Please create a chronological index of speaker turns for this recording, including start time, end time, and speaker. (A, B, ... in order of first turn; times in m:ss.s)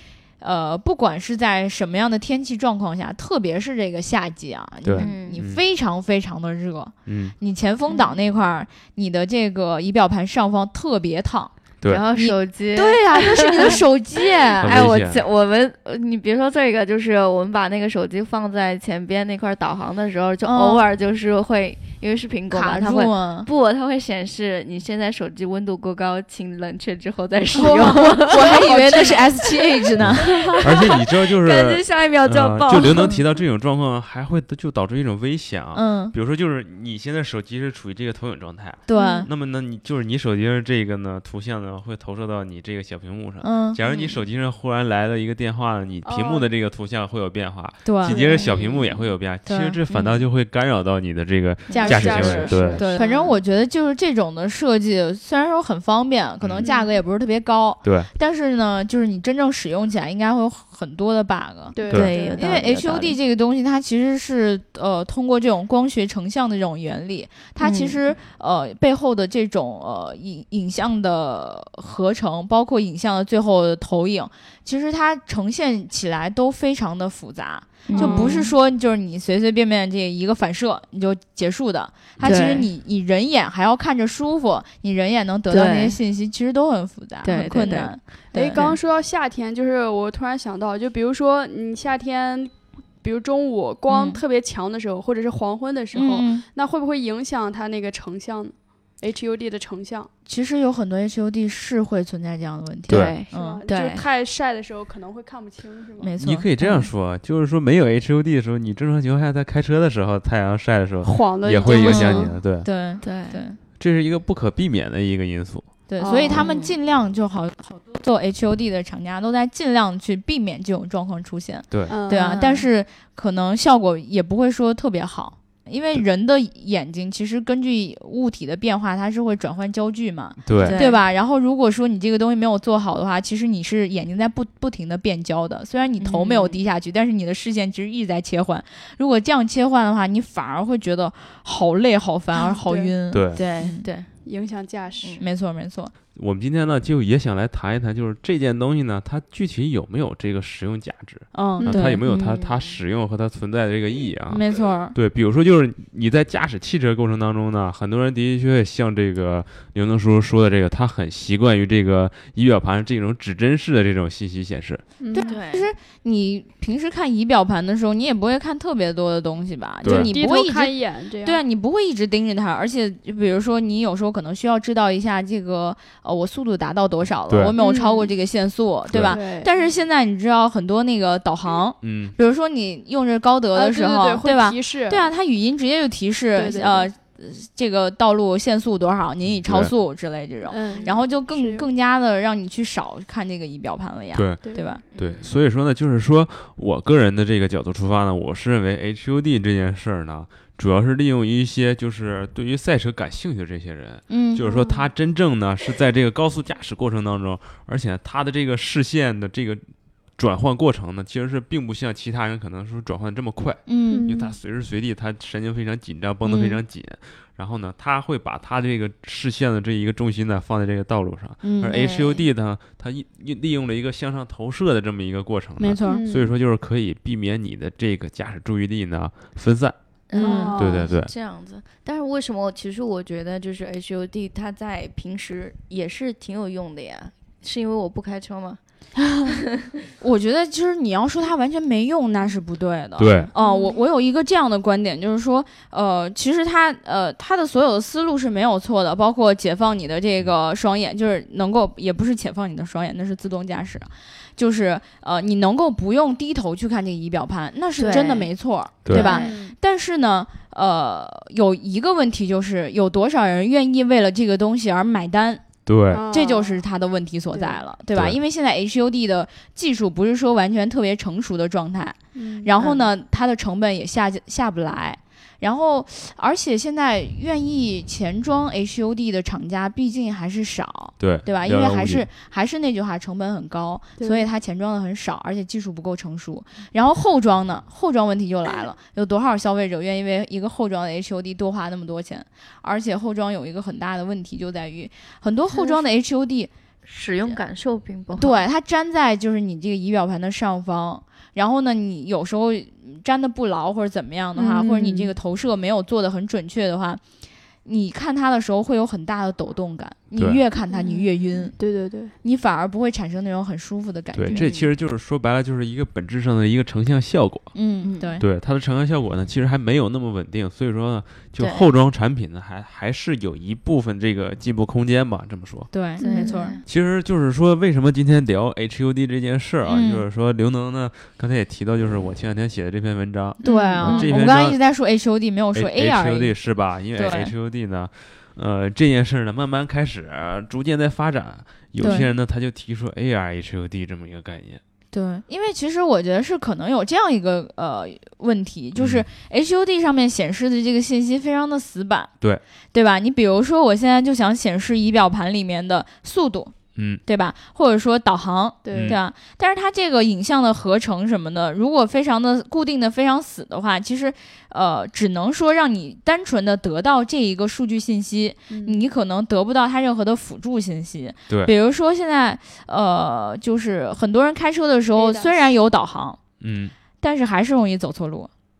0:00.4-0:11.5 A
0:04.8-0:05.6 B
0:05.0-0:05.4 C
0:07.0-0:07.3 B
0:07.9-0:08.2 C
0:11.8-0:13.8 C
0:12.1-0:14.8 A
0:14.5-0:29.3 C
0:14.6-0:15.2 B
0:20.4-0:20.8 A
0:22.5-0:23.5 A
0:27.5-0:30.6 A
0:27.6-0:29.2 D
0:30.0-0:52.9 B
0:30.1-0:33.2 C
0:32.8-0:33.2 A
0:35.7-0:36.1 A
0:38.9-0:39.3 A
0:38.9-0:39.2 D
0:43.4-0:43.8 A
0:43.9-0:44.2 C
0:46.0-0:46.5 D
0:47.8-0:48.3 A
0:48.1-0:48.5 D
0:48.3-0:49.1 C
0:49.4-0:49.8 A
0:49.9-0:50.2 C
0:51.7-0:53.4 D
0:51.7-0:53.3 C
0:51.7-1:28.7 A
0:56.4-0:56.7 B
0:56.6-0:56.9 D
0:57.8-0:58.1 B
1:01.7-1:02.6 D
1:01.9-1:03.2 C
1:07.6-1:08.0 C
1:17.8-1:18.5 C
1:17.9-1:18.5 D
1:22.2-1:22.7 C
1:22.3-1:22.6 D
1:25.5-1:26.0 C
1:27.2-1:28.0 C
1:28.3-1:40.1 D
1:33.9-1:34.2 A
1:35.9-1:36.4 A
1:40.2-1:43.6 A
1:42.9-1:43.2 B
1:42.9-1:44.0 C
1:43.3-1:46.1 D
1:46.0-1:46.9 A
1:46.2-1:52.6 B
1:51.0-1:52.3 D
1:51.6-1:52.2 C
1:51.7-1:53.6 A
1:53.0-1:53.4 C
1:53.8-1:55.7 B
1:55.9-2:23.8 A
1:56.0-1:56.4 D
1:56.3-1:56.8 C
2:01.7-2:02.0 B
2:01.9-2:02.4 D
2:02.1-2:02.7 C
2:10.4-2:10.8 B
2:10.5-2:11.0 C
2:16.0-2:16.6 C
2:22.4-2:22.9 D
2:23.1-2:23.4 B
2:23.3-2:24.1 C
2:24.2-2:25.2 D
2:25.2-2:25.9 A
2:26.1-2:44.8 B
2:31.3-2:32.0 A
2:31.6-2:31.8 D
2:32.0-2:32.8 C
2:34.3-2:34.9 A
2:45.0-2:45.4 D
2:45.1-3:14.8 A
2:45.2-2:45.7 C
2:49.8-2:50.1 B
2:49.9-2:51.4 D
2:57.3-2:57.6 B
2:57.6-2:58.1 D
2:58.9-2:59.2 B
2:59.1-2:59.7 D
3:01.8-3:02.1 B
3:03.5-3:05.1 D
3:06.3-3:06.9 D
3:09.3-3:09.7 B
3:10.5-3:11.7 D
3:14.1-3:14.4 B
3:14.4-3:14.8 D
3:14.9-3:15.3 C
3:14.9-3:29.6 B
3:24.1-3:24.4 A
3:24.4-3:24.9 D
3:30.2-3:49.8 B
3:33.7-3:34.1 A
3:33.9-3:34.4 D
3:36.2-3:36.6 A
3:41.4-3:41.8 A
3:41.7-3:42.3 C
3:45.6-3:46.0 A
3:45.9-3:46.3 D
3:50.1-3:58.6 C
3:50.2-3:50.6 A
3:50.2-3:50.9 D
3:50.6-3:51.1 B
4:00.0-4:25.4 A
4:03.0-4:03.3 B
4:03.4-4:03.8 D
4:17.8-4:18.3 C
4:18.8-4:19.1 B
4:18.9-4:19.4 C
4:18.9-4:19.5 D
4:25.6-4:26.0 B
4:25.9-4:26.6 D
4:26.1-4:56.5 A
4:27.3-4:27.6 D
4:32.1-4:32.9 D
4:41.0-4:42.1 B
4:44.0-4:44.2 D
4:56.8-4:58.4 C
4:58.1-5:07.0 A
5:04.4-5:05.1 D
5:07.6-5:11.6 A
5:10.7-5:11.0 C
5:11.6-5:12.1 D
5:12.2-5:14.5 A
5:14.1-5:17.5 B
5:14.3-5:14.7 C
5:17.5-5:18.2 A
5:17.8-5:18.2 C
5:18.2-5:25.7 B
5:21.4-5:21.7 C
5:25.7-5:26.6 A
5:26.0-5:26.6 C
5:26.0-5:26.4 D
5:26.6-5:34.6 B
5:29.6-5:30.0 A
5:33.4-5:36.3 A
5:33.5-5:34.1 D
5:33.7-5:34.0 C
5:35.5-5:44.6 B
5:36.9-5:37.3 A
5:41.8-5:42.1 A
5:44.9-5:52.1 A
5:48.8-5:49.0 B
5:52.7-6:16.2 A
5:56.8-5:57.0 B
5:58.6-5:59.0 D
5:58.7-5:59.0 B
6:08.5-6:08.8 D
6:15.0-6:15.5 D
6:16.4-6:16.7 B
6:17.0-6:18.3 A